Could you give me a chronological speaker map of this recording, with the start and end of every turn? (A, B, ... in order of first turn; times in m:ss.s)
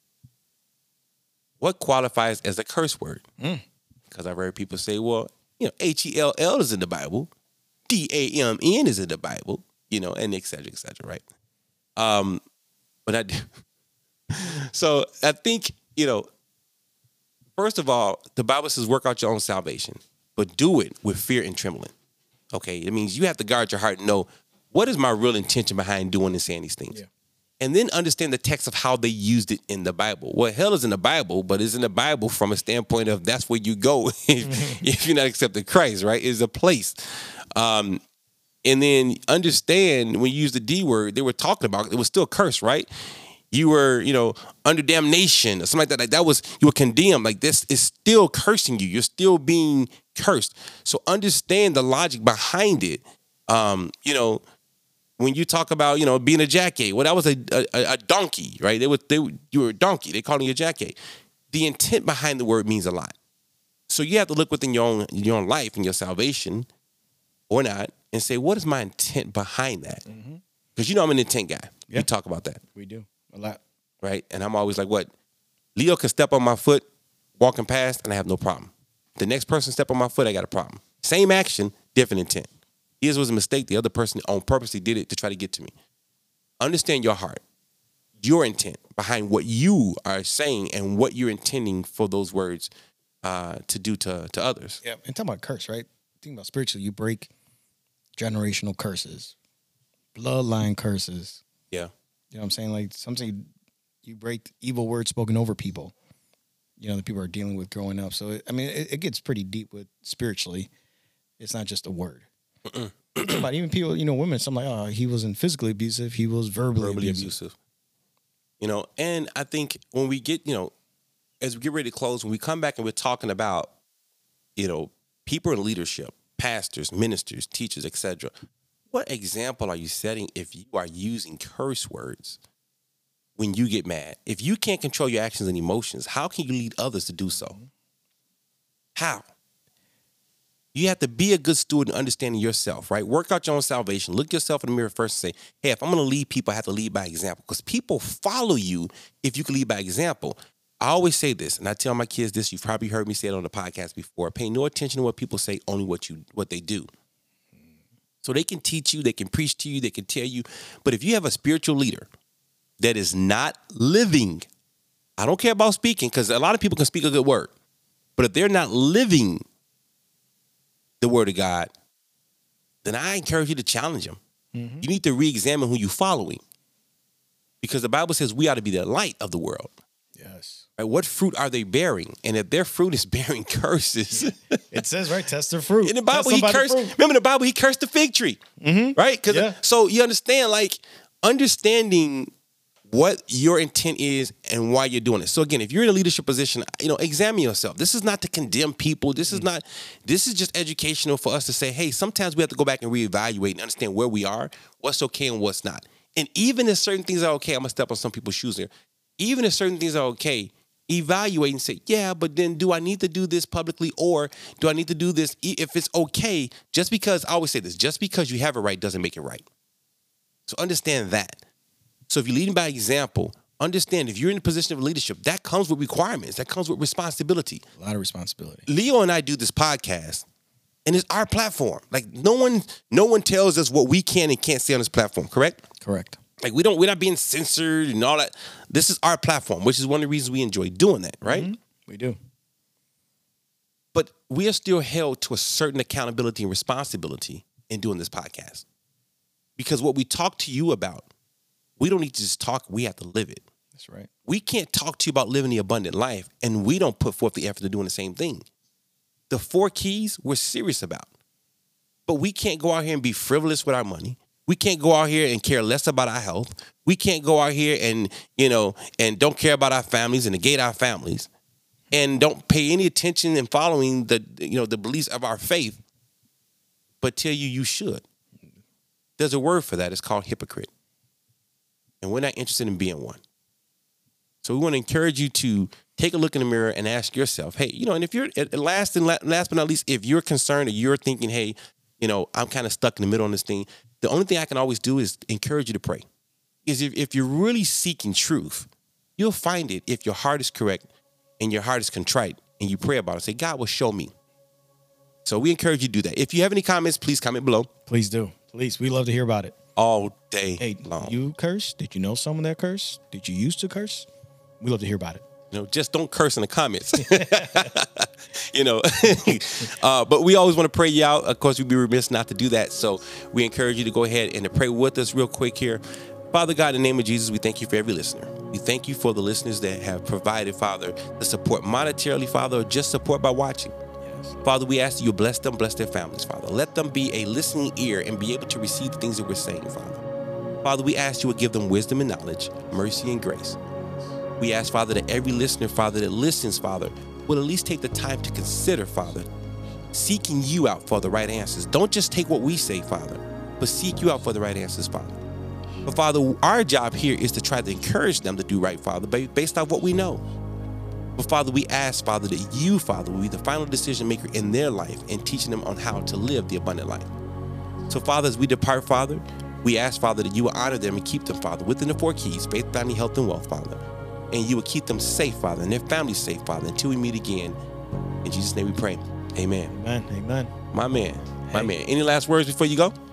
0:01.6-0:03.2 A
0:04.1-0:07.3 A
0:07.9-0:11.2 A
0:12.0-0:12.4 A
0:13.0-0:13.5 A
0:14.3-0:16.3 A
0:17.6-0:21.9 A
0:22.5-0:27.0 A
0:27.6-0:38.0 A
0:34.4-0:34.8 B
0:38.6-0:42.9 A
0:43.5-0:54.4 A
0:55.2-1:01.0 A
1:01.5-1:03.1 A
1:03.9-1:06.7 A
1:07.5-1:10.0 A
1:10.1-1:10.4 B
1:10.8-1:12.6 A
1:12.7-1:13.6 B
1:14.0-1:15.1 A
1:15.8-1:16.9 A
1:17.4-1:22.5 A
1:23.0-1:25.7 A
1:26.6-1:27.4 A
1:28.2-1:32.7 A
1:33.2-1:34.8 A
1:34.8-1:37.3 B
1:38.2-1:39.4 B
1:40.1-1:41.4 B
1:42.3-1:43.5 B
1:44.0-1:45.9 B
1:46.8-1:50.7 B
1:51.4-1:52.3 B
1:52.7-1:53.4 A
1:53.2-1:57.3 B
1:56.8-1:57.6 A
1:58.6-2:00.7 A
2:01.4-2:03.7 A
2:04.6-2:08.3 A
2:08.9-2:12.4 A
2:13.4-2:17.6 A
2:18.9-2:19.3 A
2:20.7-2:36.9 A
2:38.2-2:42.1 A
2:42.8-2:44.5 A
2:45.2-2:47.5 A
2:48.2-2:49.4 A
2:51.0-2:51.7 A
2:52.8-2:54.2 A
2:54.5-2:54.9 B
2:54.8-2:56.4 A
2:57.6-2:59.7 A
3:00.2-3:00.6 B
3:00.8-3:04.8 A
3:04.7-3:06.9 B
3:05.8-3:08.4 A
3:08.6-3:09.6 B
3:09.0-3:12.3 A
3:12.9-3:39.4 A
3:40.5-3:41.4 A
3:42.1-3:47.6 A
3:47.8-3:48.7 B
3:48.7-3:50.2 A
3:50.8-3:55.6 A
3:55.8-3:56.2 B
3:56.4-4:01.5 A
4:01.2-4:02.2 B
4:03.9-4:08.6 A
4:09.6-4:11.1 A
4:11.8-4:13.4 A
4:13.8-4:14.1 B
4:14.2-4:18.4 A
4:19.3-4:21.1 A
4:22.1-4:31.3 A
4:31.9-4:35.8 A
4:37.0-4:38.0 A
4:39.2-4:40.7 A
4:42.0-4:43.2 A
4:44.4-4:56.1 A
4:56.6-5:00.9 A
5:01.4-5:04.1 A
5:05.2-5:07.7 A
5:07.9-5:09.6 B
5:09.8-5:11.2 A
5:10.6-5:14.1 B
5:14.6-5:15.2 B
5:15.5-5:25.8 A
5:17.1-5:17.6 B
5:26.3-5:33.7 A
5:34.0-5:34.4 B
5:34.4-5:40.0 A
5:40.6-5:43.6 A
5:44.4-5:49.3 A
5:49.9-5:55.2 A
5:55.9-6:00.2 A
6:01.2-6:07.1 A
6:07.9-6:13.8 A
6:14.3-6:17.6 A
6:18.2-6:19.7 A
6:19.7-6:20.5 B
6:20.7-6:22.9 A